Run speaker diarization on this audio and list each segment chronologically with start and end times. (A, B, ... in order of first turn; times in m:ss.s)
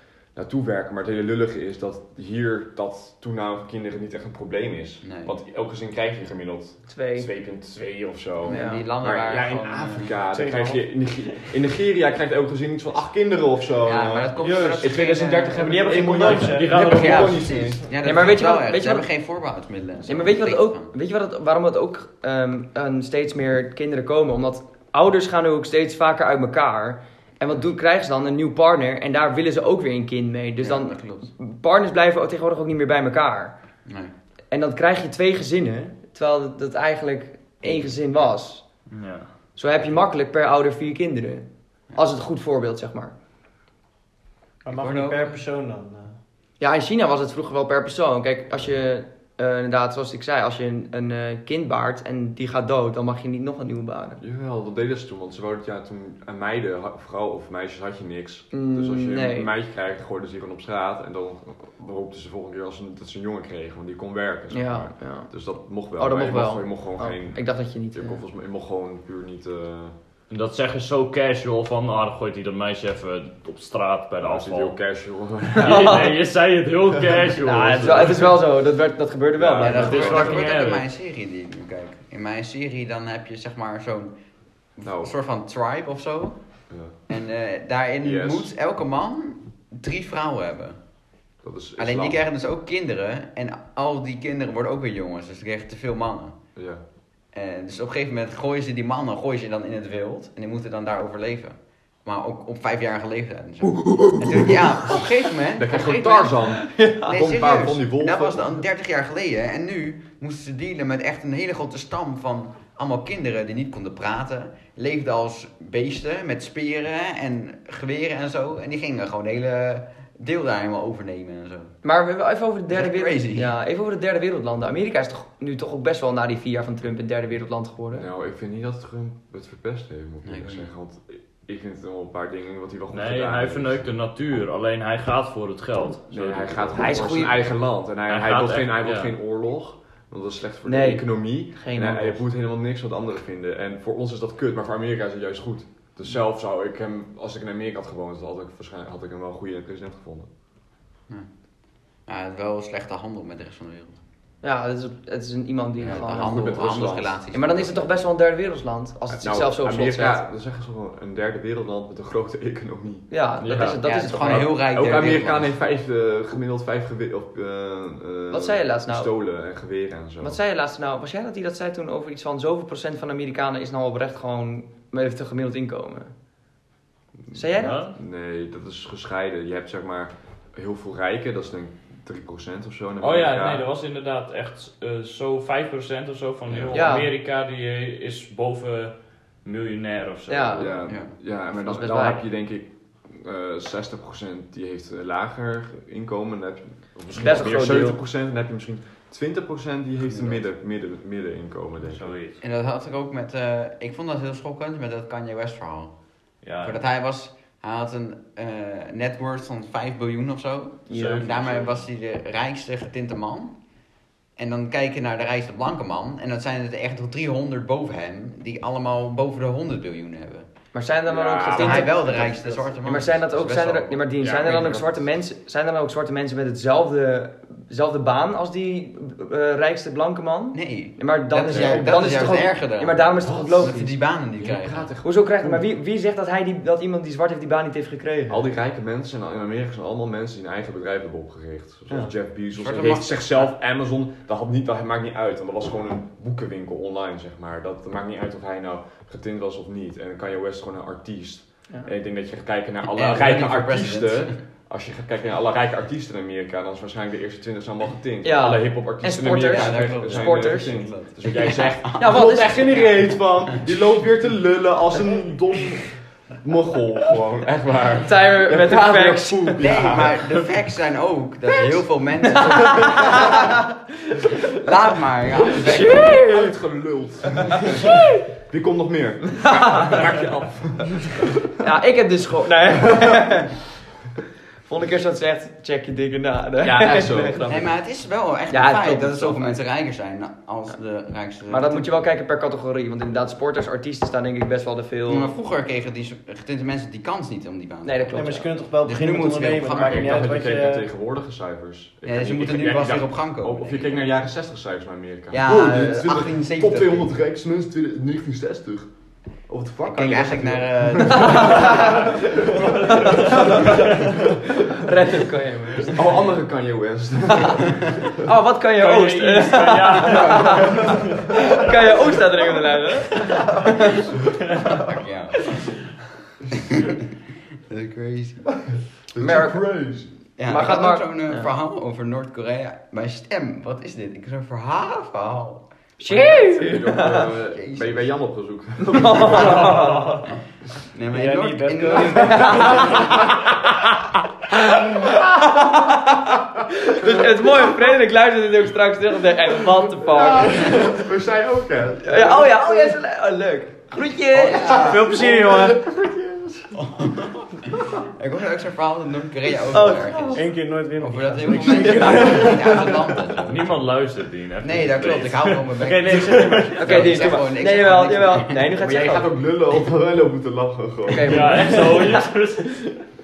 0:00.3-0:17.9 A
0:05.0-0:05.3 B
0:06.9-0:07.3 C
0:08.4-0:10.2 B
0:08.5-0:08.8 C
0:10.3-0:10.8 D
0:13.8-0:16.2 B
0:14.4-0:14.9 D
0:15.5-0:17.2 D
0:16.2-0:17.4 E
0:16.7-0:20.9 B
0:18.0-0:19.1 C
0:20.1-0:33.5 C
0:30.6-0:31.3 B
0:33.9-0:34.1 B
0:34.5-0:38.6 C
0:38.9-0:39.3 E
0:39.6-0:43.1 C
0:44.6-0:46.2 D
0:44.7-0:45.4 B
0:46.6-0:54.2 C
0:54.2-1:10.0 A
0:58.5-0:59.5 C
1:04.5-1:05.3 C
1:05.9-1:08.2 C
1:10.3-1:14.8 E
1:14.2-1:16.1 A
1:15.5-1:18.3 E
1:15.6-1:16.1 C
1:17.4-1:20.4 C
1:19.4-1:20.4 A
1:19.6-1:24.1 B
1:19.7-1:20.9 E
1:24.8-1:26.4 B
1:24.8-1:25.1 A
1:26.7-1:27.0 A
1:27.1-1:30.8 B
1:28.0-1:28.5 A
1:31.4-1:32.3 A
1:31.8-1:36.4 B
1:36.6-1:36.8 A
1:37.3-2:01.8 B
1:43.8-1:45.0 A
1:45.6-1:48.6 A
1:46.7-1:47.1 C
2:01.8-2:08.1 C
2:02.7-2:03.5 B
2:07.9-2:13.9 A
2:10.2-2:10.7 B
2:12.9-2:16.9 E
2:16.1-2:30.3 A
2:16.8-2:17.4 C
2:18.1-2:19.1 E
2:20.6-2:22.2 C
2:32.1-2:34.0 B
2:34.4-2:40.2 C
2:35.8-2:37.9 B
2:35.8-2:37.2 A
2:39.2-2:50.4 A
2:43.1-2:44.5 C
2:43.4-2:43.8 E
2:43.8-2:45.6 B
2:48.3-2:49.1 C
2:50.2-2:56.1 C
2:57.2-3:03.6 A
2:57.3-2:57.8 C
2:57.6-2:58.0 E
3:03.0-3:10.8 E
3:06.5-3:06.9 A
3:06.7-3:07.1 C
3:10.3-3:10.8 C
3:10.6-3:22.1 A
3:10.9-3:11.1 B
3:11.6-3:12.2 C
3:17.1-3:18.0 C
3:20.1-3:20.4 B
3:21.8-3:22.4 E
3:22.4-3:25.9 B
3:26.4-3:26.8 E
3:26.6-3:33.6 B
3:30.9-3:31.8 E
3:30.9-3:31.2 C
3:34.4-3:40.5 B
3:40.7-3:42.0 C
3:41.1-3:42.7 A
3:41.5-3:44.0 B
3:42.8-3:53.9 C
3:44.2-3:45.1 A
3:50.5-3:54.9 B
3:51.5-3:52.2 A
3:53.2-3:53.8 A
3:54.4-3:55.6 A
3:55.0-3:58.4 C
3:58.3-4:30.4 A
4:02.5-4:03.5 B
4:12.9-4:14.4 B
4:18.2-4:20.8 C
4:19.3-4:22.9 B
4:22.0-4:22.8 C
4:28.0-4:29.7 C
4:29.6-4:33.5 B
4:32.3-4:33.5 C
4:34.5-4:36.1 B
4:35.5-4:36.6 C
4:35.7-4:41.5 A
4:37.5-4:38.2 C
4:39.4-4:40.0 C
4:41.6-4:43.6 C
4:42.8-4:43.2 A
4:44.7-4:47.4 C
4:46.6-4:47.7 A
4:47.5-4:51.9 B
4:48.5-4:49.6 C
4:51.5-4:55.3 C
4:55.1-5:00.4 B
4:57.8-4:58.5 C
4:58.1-5:00.9 D
4:59.7-5:08.9 A
5:02.1-5:04.1 B
5:05.3-5:07.1 B
5:09.5-5:14.4 A
5:09.8-5:12.2 B
5:11.2-5:11.6 C
5:12.9-5:13.8 C
5:14.8-5:16.0 C
5:15.8-5:18.1 A
5:18.2-5:24.0 C
5:18.8-5:21.0 E
5:20.1-5:21.0 A
5:24.7-5:25.7 B
5:26.5-5:27.0 B
5:27.7-5:28.4 B
5:28.7-5:30.1 A
5:29.2-5:29.6 C
5:30.4-5:35.6 B
5:30.5-5:31.5 C
5:36.0-5:37.3 C
5:36.1-5:39.9 A
5:37.1-5:38.1 B
5:38.8-5:40.2 C
5:40.9-5:43.2 B
5:41.1-5:43.0 D
5:42.1-5:51.0 C
5:49.9-5:53.0 A
5:52.0-5:55.0 C
5:54.3-5:55.2 B
5:54.8-5:55.8 D
5:55.1-5:56.7 A
5:56.8-6:00.5 B
5:59.7-6:00.4 C
5:59.8-6:03.1 D
6:01.0-6:03.9 B
6:01.7-6:02.5 C
6:03.4-6:06.4 E
6:04.6-6:08.7 B
6:05.8-6:07.3 D
6:06.8-6:09.3 C
6:08.8-6:11.7 A
6:11.1-6:12.2 C
6:11.2-6:13.0 E